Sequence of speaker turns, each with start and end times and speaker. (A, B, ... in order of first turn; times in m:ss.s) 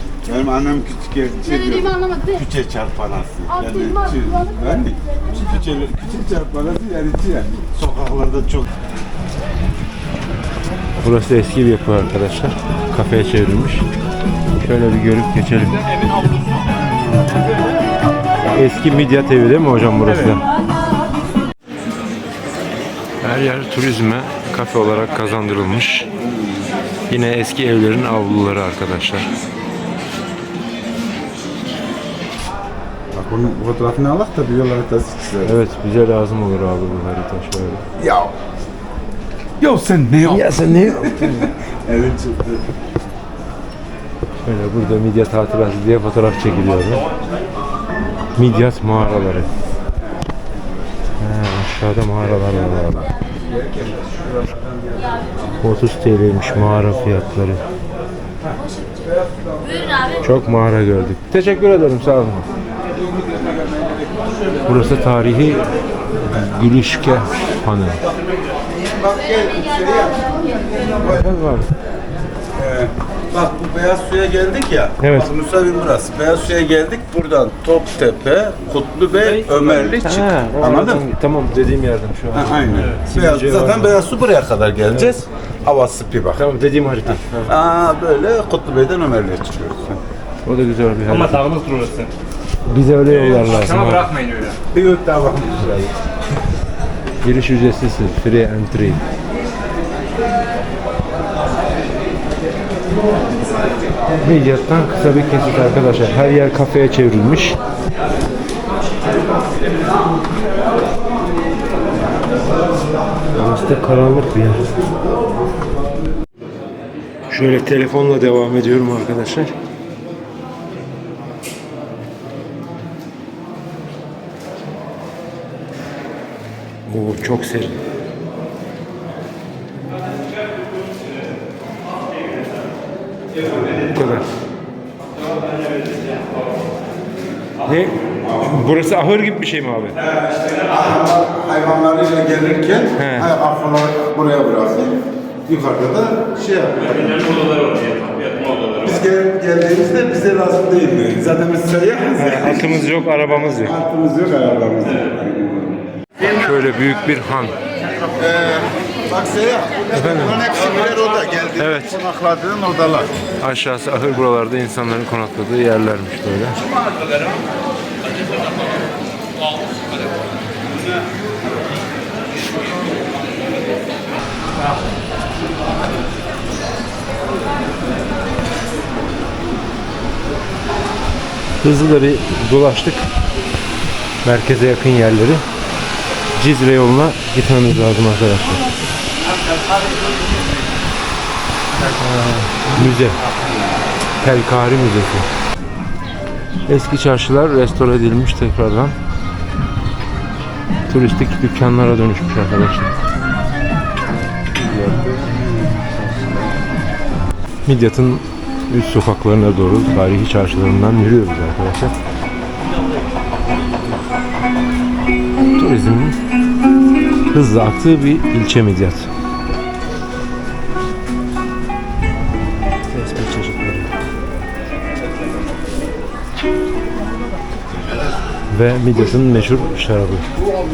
0:00.2-0:08.7 A
0:11.0-0:13.9 B
0:14.6-0:15.8 B
0:16.0-0:16.2 C
0:16.8-0:17.4 A
0:18.5-0:20.4 B
0:20.0-0:20.4 C
0:23.2-0:26.1 B
0:26.2-0:26.7 A
0:27.1-0:29.3 B
0:33.1-0:35.6 A
0:35.4-0:37.8 B
0:38.0-0:38.3 A
0:39.6-0:42.7 A
0:40.2-0:41.5 B
0:44.4-0:47.0 B
0:46.8-0:47.4 C
0:48.3-0:49.5 B
0:48.5-0:49.3 C
0:50.0-0:50.9 A
0:51.2-0:53.1 B
0:52.2-0:55.6 A
0:55.6-0:57.6 B
0:58.4-1:00.2 A
1:00.2-1:02.5 B
1:02.7-1:04.9 A
1:04.6-1:05.6 B
1:06.2-1:08.0 B
1:06.3-1:06.6 A
1:08.8-1:11.3 A
1:11.1-1:11.7 B
1:12.5-1:21.0 A
1:15.0-1:15.3 B
1:19.2-1:24.0 B
1:22.3-1:26.4 A
1:22.7-1:23.0 C
1:24.9-1:25.2 B
1:26.3-1:27.5 B
1:27.0-1:30.0 A
1:30.4-1:31.5 B
1:31.0-1:32.1 C
1:32.7-1:34.1 B
1:33.0-1:34.6 C
1:34.7-1:35.9 A
1:37.2-1:39.0 B
1:44.2-1:47.6 B
1:53.3-1:54.7 B
1:57.3-1:59.5 B
2:06.9-2:07.8 B
2:10.1-2:11.1 C
2:11.9-2:12.7 C
2:13.3-2:14.0 C
2:13.9-2:14.2 B
2:15.2-2:16.6 C
2:17.6-2:20.0 B
2:18.2-2:18.8 A
2:20.0-2:27.3 A
2:23.0-2:23.3 B
2:26.8-2:29.0 C
2:28.8-2:35.8 A
2:32.2-2:33.7 B
2:36.3-2:37.6 B
2:38.1-2:43.2 A
2:39.9-2:40.4 B
2:41.6-2:41.9 B
2:43.4-2:46.6 B
2:46.6-2:47.4 A
3:01.6-3:03.1 B
3:04.2-3:05.4 B
3:06.4-3:08.7 B
3:09.3-3:10.7 C
3:12.0-3:13.2 B
3:14.2-3:15.3 B
3:16.7-3:19.0 B
3:20.9-3:22.9 B
3:24.5-3:26.6 A
3:27.6-3:31.9 B
3:35.5-3:36.2 B
3:37.3-3:39.1 B
3:42.9-3:43.9 B
3:48.5-3:50.2 B